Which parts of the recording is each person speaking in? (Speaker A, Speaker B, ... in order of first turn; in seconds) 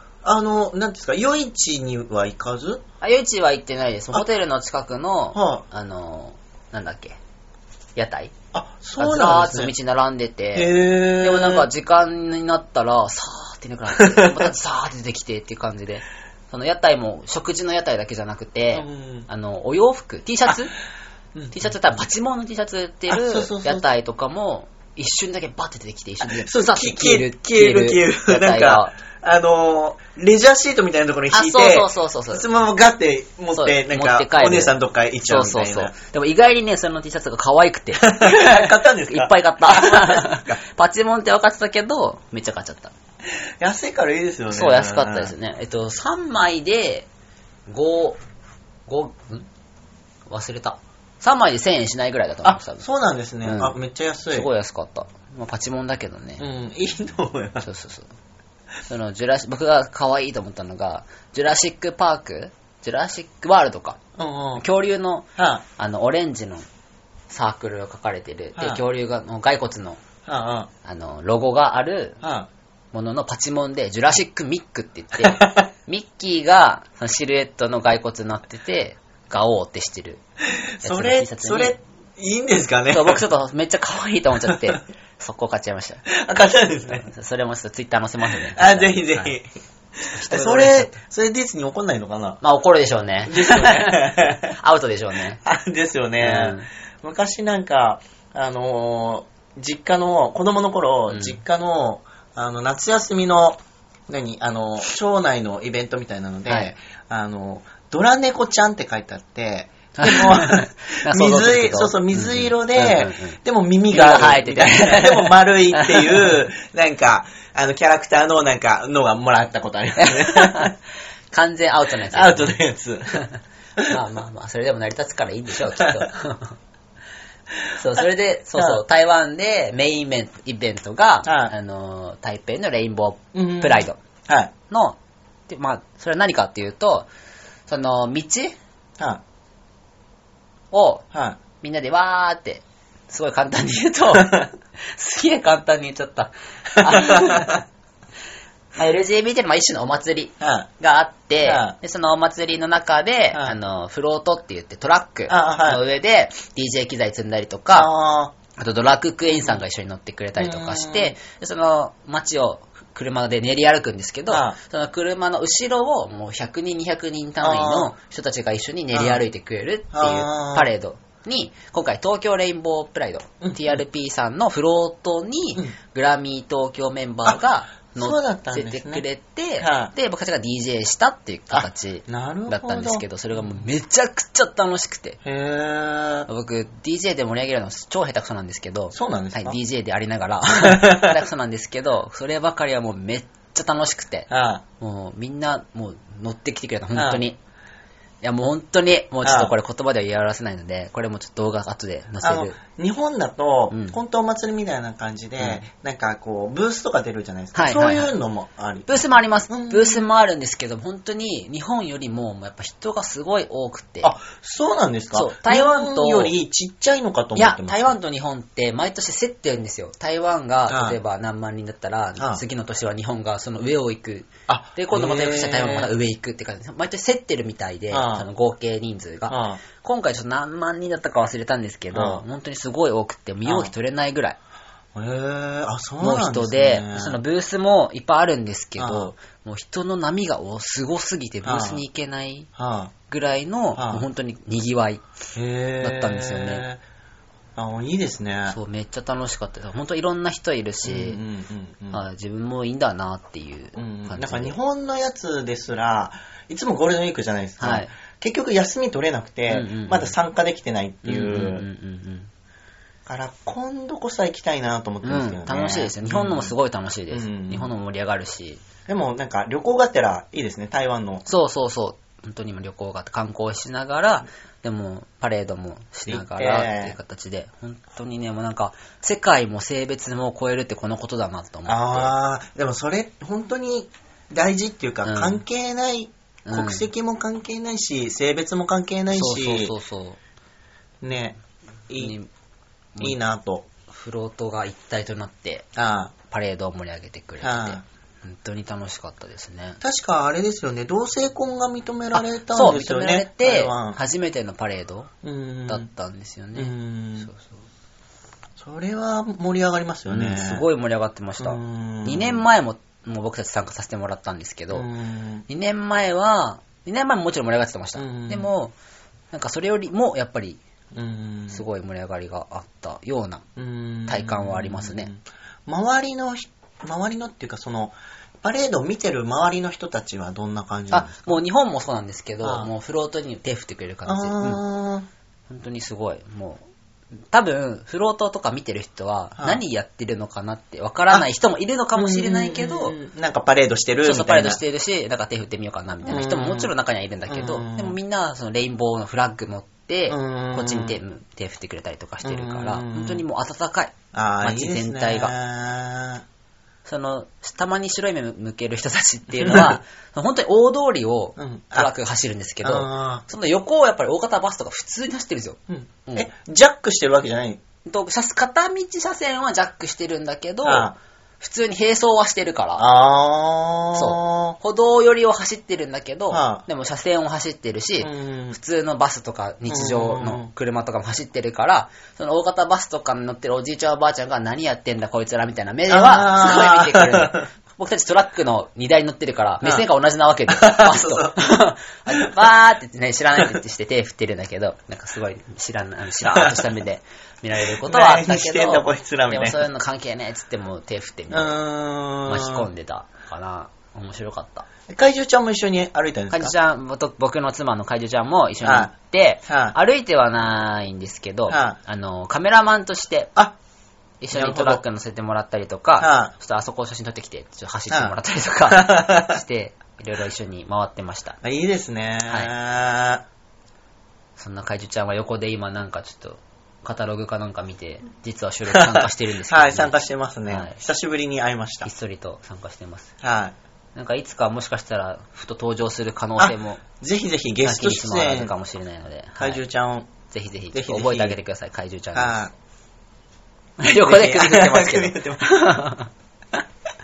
Speaker A: 0.2-2.8, 5.3-5.6, 8.5-9.7, 10.5-11.7, 13.9-14.5, 18.7-19.3, 23.1-23.8, 26.2-35.9, 38.0-40.6, 43.6-45.3, 52.4-54.5, 56.4-57.7, 64.2-64.6, 65.4-65.6, 68.6-68.8, 70.2-70.7, 72.2-72.5, 75.2-75.7, 80.6-83.2, 84.4-84.8, 86.1-87.1, 88.4-89.5, 90.3-92.4, 93.3-94.5, 95.4-120.7, 122.1-123.2, 128.6-128.8, 131.2-131.5, 133.3-134.5, 141.1-141.4, 146.8-147.6, 150.4-150.7, 151.4-151.7, 155.3-155.8, 157.7-158.3, 159.3-159.6, 160.4-161.1, 164.3-164.6, 167.4-167.9, 168.9-169.2, 169.9-170.7, 173.4-173.8, 177.9-179.0, 179.6-179.9, 181.5-183.5, 185.2-186.3, 188.9-189.6, 190.6-191.2, 194.3-194.6, 196.9-197.2, 199.2-199.5, 202.2-210.0, 214.0-217.9, 220.7-221.0, 224.5-225.9, 227.9-228.3, 229.3-229.6, 231.9-232.2, 233.4-233.7, 234.9-237.2, 238.8-239.1, 241.4-241.8, 242.6-242.9, 243.8-244.0, 245.3-246.8, 247.6-248.6, 250.8-252.0, 253.8-261.6, 263.1-266.5, 267.1-267.7, 268.9-271.2, 276.1-276.9, 281.7-289.7, 291.0-291.4, 291.9-292.1, 293.0-293.6, 295.8-296.1, 297.4-297.8, 299.8-304.0, 305.2-305.9, 306.6-307.3, 308.6-310.6, 311.4-312.4, 314.7-315.4, 317.9-318.5, 320.9-321.6, 323.6-331.4, 332.4-332.7, 334.1-335.1, 341.9-344.6, 346.0-346.7, 347.3-348.0, 350.1-351.0, 352.2-353.2, 354.1-356.2, 359.4-359.8, 361.4-361.9, 362.6-363.2, 365.7-367.6, 370.6-370.9, 372.8-374.6, 376.3-376.6, 378.0-378.6, 379.7-380.5, 385.9-387.4, 390.5-391.4, 396.3-396.6, 397.8-399.6, 401.3-402.7, 404.9-406.5, 408.6-408.9, 409.5-409.8, 411.5-411.8, 414.3-414.8, 416.0-416.3, 417.9-418.1, 418.7-419.4, 421.4-423.2, 428.7-431.9, 433.2-433.6, 436.4-438.5, 439.4-440.1, 440.7-441.4, 442.1-442.5, 443.9-445.5
Speaker B: 3.0-7.2, 8.0-8.3, 9.0-20.7, 21.5-28.9, 31.3-32.5, 33.5-42.9, 44.5-47.1, 47.7-48.2, 48.9-49.5, 50.3-52.9, 53.4-53.8, 54.3-56.4, 57.6-58.1, 58.9-64.0, 64.5-66.7, 67.3-70.0, 70.8-72.2, 72.9-80.2, 80.8-81.7, 82.9-86.0, 86.9-89.3, 90.0-91.0, 92.4-95.4, 96.2-96.7, 101.1-101.4, 110.0-113.4, 113.9-116.3, 120.0-120.8, 121.3-122.5, 123.8-126.5, 127.8-134.0, 134.7-135.0, 135.5-137.1, 137.7-138.5, 140.7-141.0, 141.6-147.6, 148.8-157.9, 158.6-185.2, 186.3-194.3, 194.8-197.4, 198.2-202.6, 203.7-204.0, 205.4-205.6, 207.5-208.1, 208.9-214.1, 215.1-216.3, 217.3-234.4, 236.0-242.5, 243.1-245.0, 245.8-246.6, 248.5-251.2, 251.9-254.6, 257.6-257.9, 259.5-260.1, 261.0-262.3, 265.0-268.6, 271.2-282.1, 285.1-285.4, 286.4-286.9, 289.1-290.2, 292.0-292.3, 293.9-295.7, 296.3-299.8, 302.1-305.1, 305.7-306.7, 310.1-314.9, 315.5-318.7, 319.3-320.6, 321.5-323.4, 324.1-325.1, 330.9-334.6, 335.5-336.6, 337.3-342.9, 344.0-355.3, 356.9-366.3, 367.9-372.9, 373.9-401.6, 402.2-404.7, 406.3-413.3, 414.2-421.4, 422.3-422.5, 424.4-429.9, 430.5-430.8, 431.8-433.1, 433.9-436.8, 437.6-439.6, 440.3-442.4, 443.8-446.1